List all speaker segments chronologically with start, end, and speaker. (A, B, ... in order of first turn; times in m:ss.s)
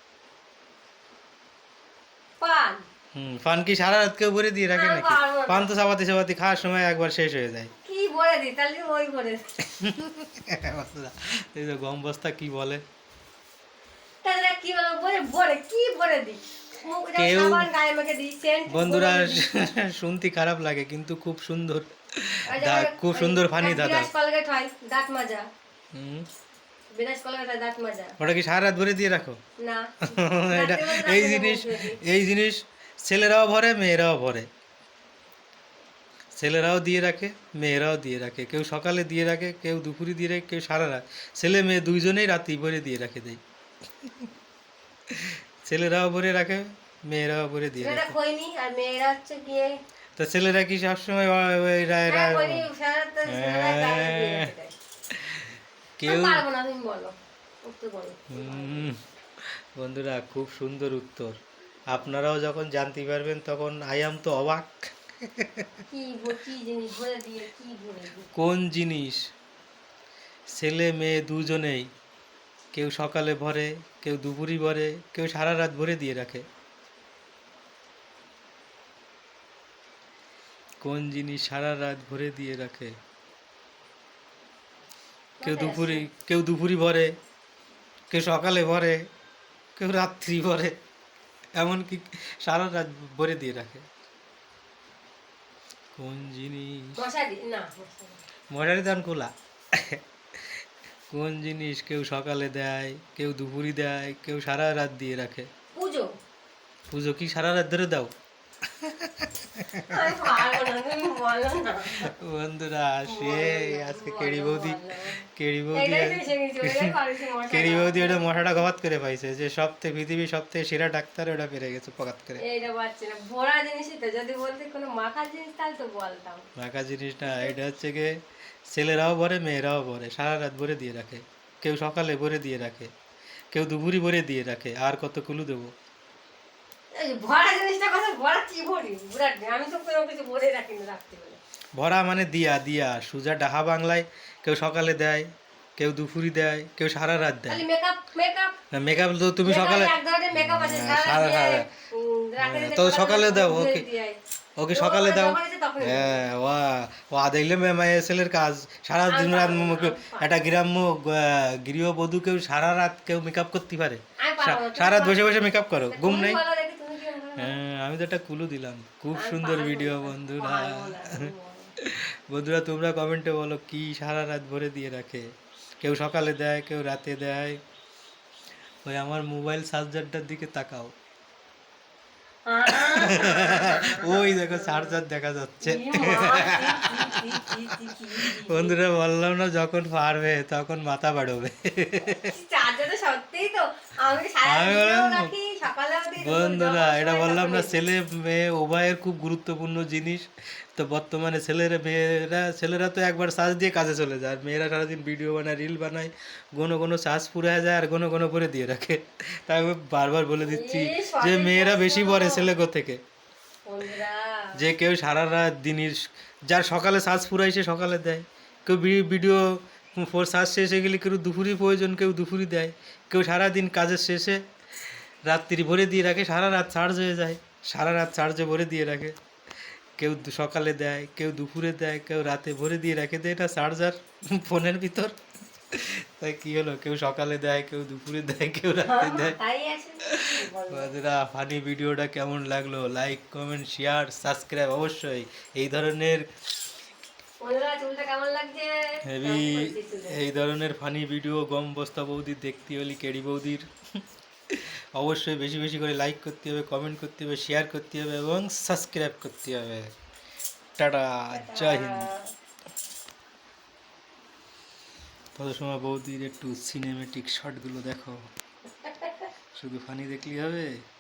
0:02.4-0:02.8 A
0:03.2-0:07.7 B
0:04.7-0:05.7 A
0:07.8-0:09.5 A
0:09.7-0:12.8 B
0:14.2-0:19.7 A
0:17.2-0:17.7 B
0:18.7-0:24.1 B
0:22.5-0:25.5 A
0:25.9-0:26.3 B
0:27.0-0:28.2 A
0:28.2-0:29.4 B
0:29.6-0:32.0 A
0:30.1-0:34.5 B
0:36.4-0:43.4 B
0:45.1-0:48.1 B
0:47.8-0:49.8 A
0:50.2-0:52.7 B
0:52.1-0:54.8 A
0:53.3-0:54.5 B
0:55.1-0:56.4 B
0:56.0-0:58.9 A
0:58.3-1:01.4 B
1:01.9-1:05.8 B
1:05.9-1:08.3 A
1:08.3-1:09.2 B
1:10.5-1:11.9 B
1:12.7-1:16.4 B
1:20.8-1:22.9 B
1:25.4-1:26.1 A
1:25.4-1:27.1 B
1:28.1-1:29.0 B
1:29.8-1:30.8 B
1:31.6-1:33.8 B
1:36.0-1:37.0 B
1:37.0-1:38.2 A
1:38.5-1:40.0 B
1:41.1-1:45.5 B
1:45.8-1:46.1 A
1:46.9-1:48.1 B
1:48.8-1:50.6 B
1:49.9-1:52.1 A
1:51.9-1:56.9 B
1:53.1-1:58.7 A
1:57.5-2:02.4 B
2:02.4-2:06.5 A
2:06.6-2:08.2 B
2:07.2-2:07.6 A
2:08.7-2:12.9 B
2:13.5-2:15.7 B
2:16.9-2:21.4 A
2:21.8-2:25.3 B
2:25.8-2:27.6 B
2:27.5-2:28.6 A
2:28.7-2:31.7 B
2:29.4-2:34.2 A
2:32.4-2:33.8 B
2:34.6-2:46.4 B
2:34.7-2:36.2 A
2:39.1-2:40.4 A
2:44.2-2:47.6 A
2:47.4-2:51.3 B
2:49.1-2:51.7 A
2:51.8-2:55.3 B
2:55.8-2:57.6 B
2:58.8-3:00.9 B
3:02.5-3:05.0 A
3:02.8-3:12.3 B
3:05.6-3:08.8 A
3:12.1-3:17.8 A
3:14.4-3:15.3 B
3:16.2-3:33.0 B
3:30.4-3:32.5 A
3:33.7-3:34.6 A
3:34.6-3:44.4 B
3:45.3-3:49.2 B
3:50.0-3:55.2 B
3:55.7-3:59.4 B
3:58.8-4:01.0 A
4:00.0-4:06.3 B
4:07.4-4:10.2 A
4:09.1-4:13.7 B
4:14.5-4:19.9 B
4:20.8-4:22.1 B
4:21.3-4:22.3 A
4:25.4-4:28.2 B
4:28.8-4:29.3 A
4:29.6-4:30.7 B